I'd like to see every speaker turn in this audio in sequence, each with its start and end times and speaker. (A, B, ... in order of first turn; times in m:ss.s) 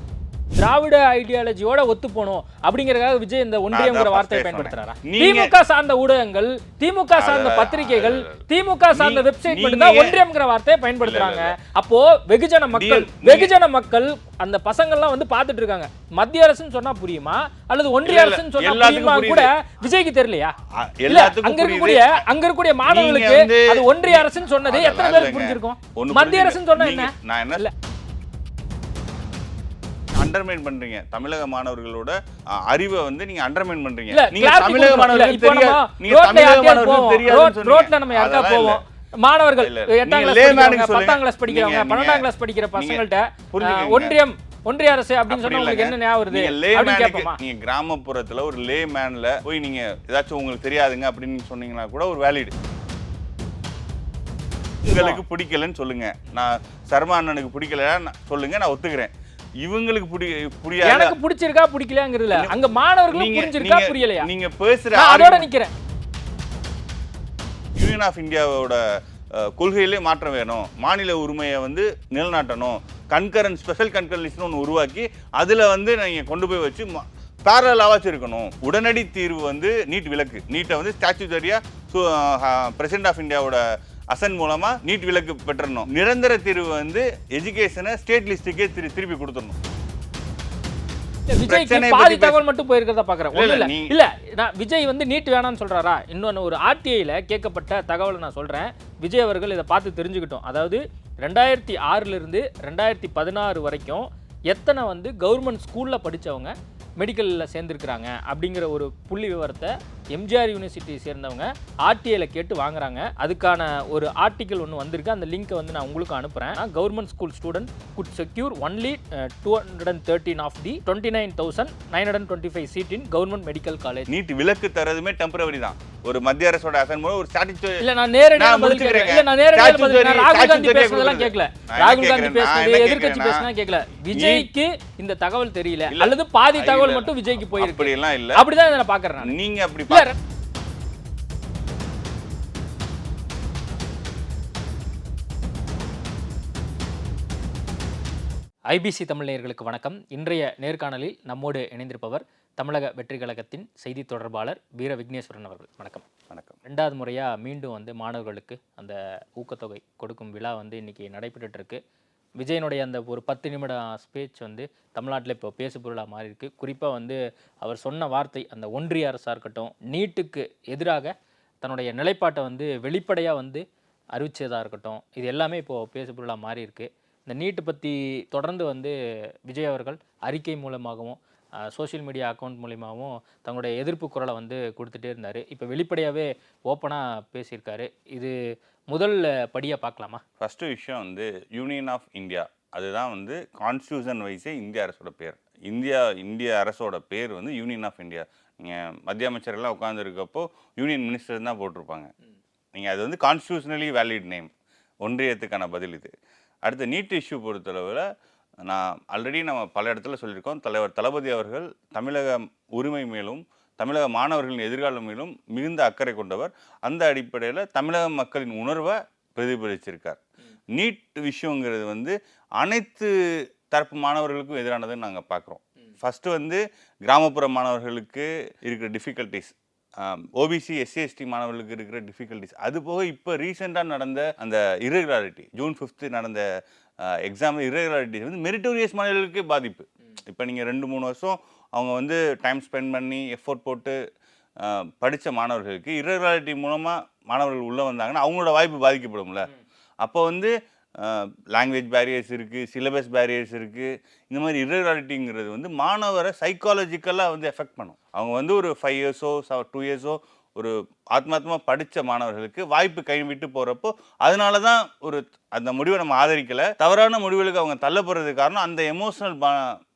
0:00.5-0:20.5 A
0:03.7-0:05.5 B
0:07.1-0:08.4 B
0:08.9-0:10.2 B
0:11.0-0:11.5 B
0:12.7-0:13.5 B
0:18.0-0:19.5 B
0:20.7-0:22.2 B
0:21.1-0:27.7 A
0:22.8-0:27.7 B
0:30.1-0:38.8 B
0:34.1-0:47.4 A
0:39.6-0:42.2 B
0:42.8-0:44.2 B
0:45.3-0:52.5 B
0:54.8-1:01.1 B
0:54.8-0:55.2 A
1:00.8-1:04.3 A
1:03.1-1:05.5 B
1:04.9-1:05.7 A
1:07.8-1:29.6 B
1:31.3-2:04.1 A
1:31.4-1:32.4 B
1:33.3-1:33.9 B
2:04.1-2:07.8 B
2:07.8-2:19.3 A
2:08.4-2:13.4 B
2:14.1-2:14.5 B
2:15.9-2:18.4 B
2:19.2-2:20.1 B
2:19.9-2:20.1 A
2:28.7-2:36.0 A
2:36.3-2:36.6 B
2:36.6-2:41.8 A
2:42.4-2:53.6 A
2:54.1-2:59.0 A
2:59.5-3:08.3 A
3:08.9-3:10.2 A
3:10.4-3:22.1 B
3:22.7-3:24.5 B
3:25.0-3:26.1 B
3:26.6-3:28.0 B
3:28.6-3:40.2 B
3:40.7-3:43.1 B
3:43.7-3:56.4 B
3:57.0-4:04.0 B
4:04.6-4:09.5 B
4:10.0-4:29.7 B